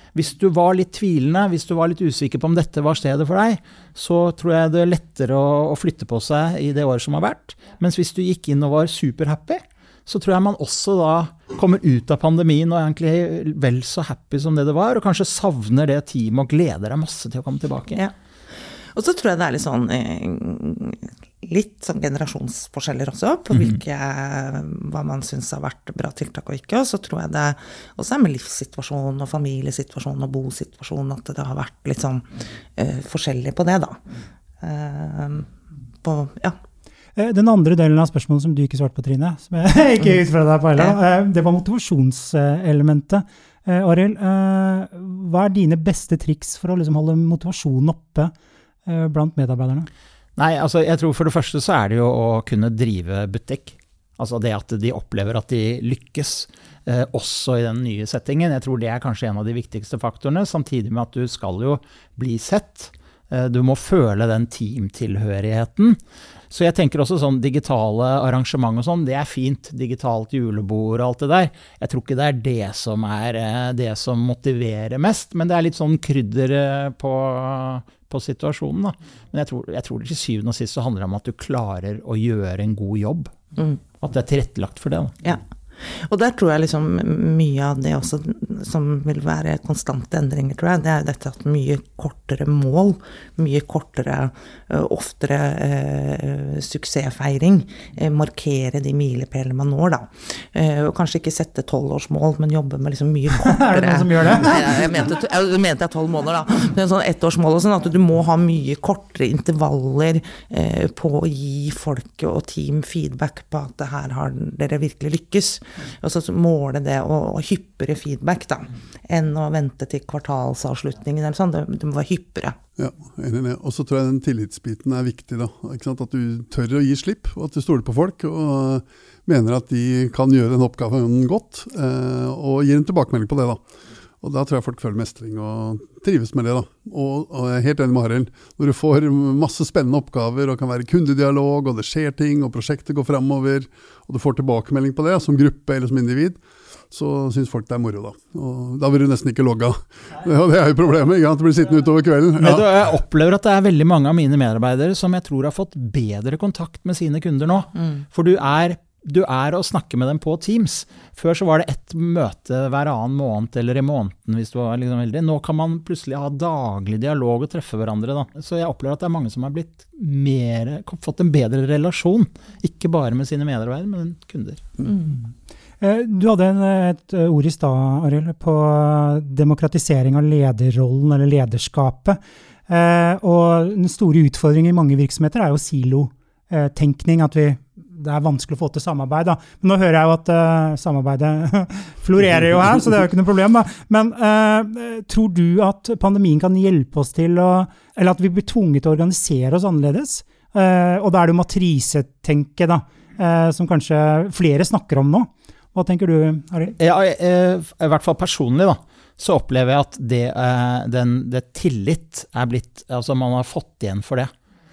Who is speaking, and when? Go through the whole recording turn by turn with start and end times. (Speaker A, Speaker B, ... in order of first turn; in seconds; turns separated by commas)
Speaker A: 0.1-18.0, Speaker B: 18.9-34.0, Speaker B: 34.6-35.5, Speaker B: 36.0-36.6, Speaker C: 37.1-48.3, Speaker C: 48.9-49.9, Speaker A: 50.4-66.0, Speaker A: 66.5-83.3, Speaker B: 83.5-83.8, Speaker A: 84.0-85.2, Speaker B: 85.2-122.6, Speaker C: 103.3-104.8, Speaker D: 122.8-133.6, Speaker D: 134.2-146.4, Speaker D: 146.9-152.7, Speaker A: 152.4-174.6, Speaker C: 175.8-206.8, Speaker A: 206.8-214.3